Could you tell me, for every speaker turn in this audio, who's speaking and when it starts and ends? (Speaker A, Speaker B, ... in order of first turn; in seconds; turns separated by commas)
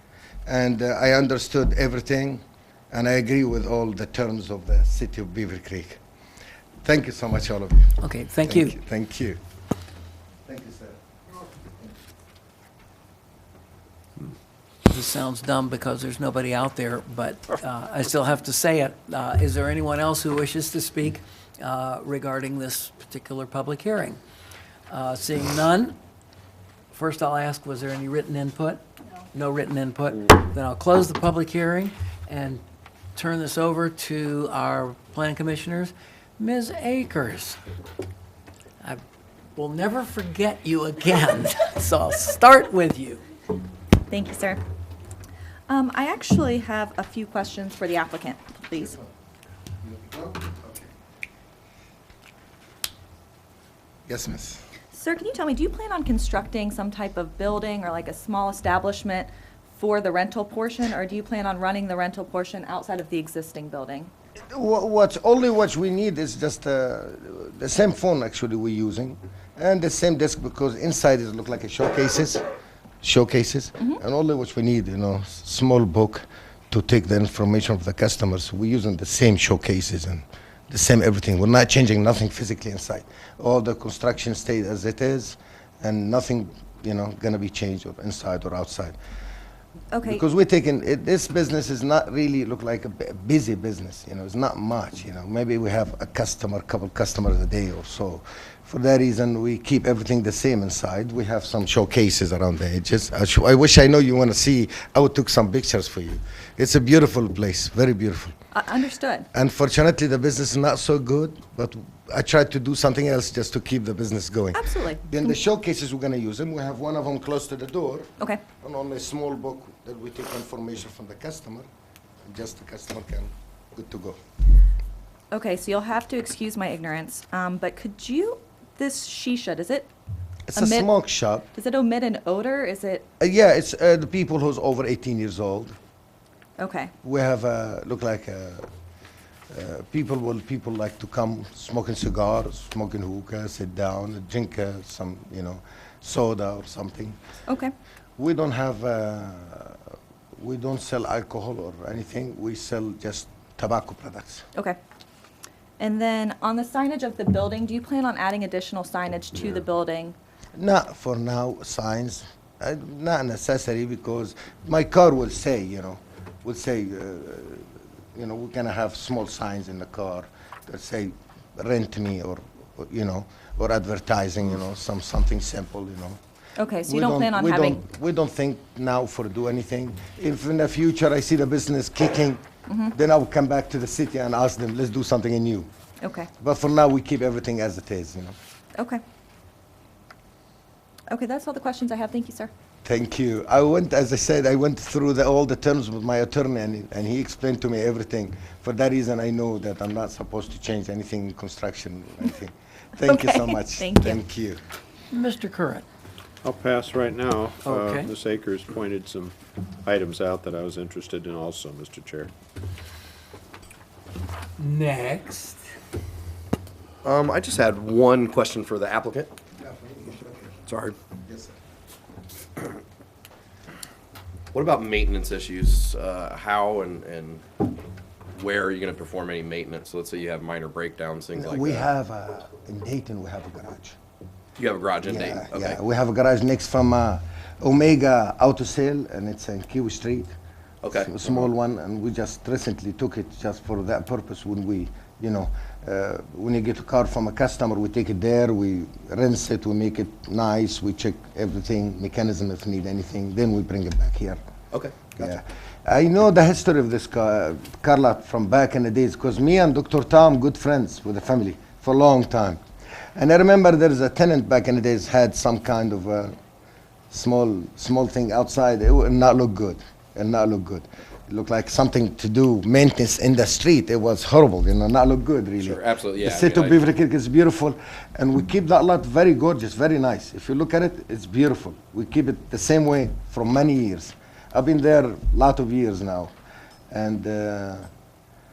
Speaker A: 0.5-6.0, Speaker A: 6.8-9.4, Speaker B: 8.0-8.8, Speaker A: 10.4-11.0, Speaker B: 14.9-24.2, Speaker B: 24.9-25.9, Speaker B: 26.9-28.8, Speaker B: 29.3-32.6, Speaker B: 33.1-37.6, Speaker B: 39.5-43.2, Speaker C: 44.1-44.6, Speaker C: 45.7-49.0, Speaker A: 49.8-50.9, Speaker A: 54.1-54.6, Speaker C: 54.9-64.1, Speaker A: 64.5-72.4, Speaker A: 73.0-89.0, Speaker C: 89.9-90.2, Speaker A: 90.0-108.4, Speaker C: 108.5-109.3, Speaker A: 109.3-121.7, Speaker C: 114.5-115.4, Speaker C: 118.2-118.4, Speaker A: 122.3-124.2, Speaker C: 125.3-129.9, Speaker A: 130.5-131.5, Speaker C: 130.5-133.1, Speaker A: 133.2-135.8, Speaker C: 136.6-136.9, Speaker A: 137.0-138.7, Speaker A: 139.5-147.2, Speaker C: 147.5-147.7, Speaker A: 148.2-154.4, Speaker C: 155.8-160.2, Speaker A: 160.6-176.2, Speaker C: 176.6-177.8, Speaker A: 176.8-185.7, Speaker C: 182.7-182.9, Speaker C: 186.0-186.3, Speaker A: 186.4-188.3, Speaker C: 188.8-189.0, Speaker C: 191.1-192.5, Speaker A: 192.8-204.6, Speaker C: 203.0-204.2, Speaker B: 205.1-205.8, Speaker D: 206.4-212.3, Speaker B: 207.6-208.1, Speaker B: 214.6-215.6, Speaker E: 217.0-219.3, Speaker A: 219.6-220.6, Speaker E: 220.7-220.9, Speaker A: 221.3-221.5, Speaker E: 224.5-227.4, Speaker E: 228.3-231.9, Speaker A: 231.3-234.0, Speaker E: 234.6-235.8, Speaker A: 235.0-240.3, Speaker E: 240.8-241.5, Speaker A: 240.9-254.4, Speaker E: 254.7-255.2, Speaker A: 255.2-262.6, Speaker A: 263.1-266.4, Speaker A: 267.1-286.3, Speaker E: 275.6-276.9, Speaker A: 286.9-287.9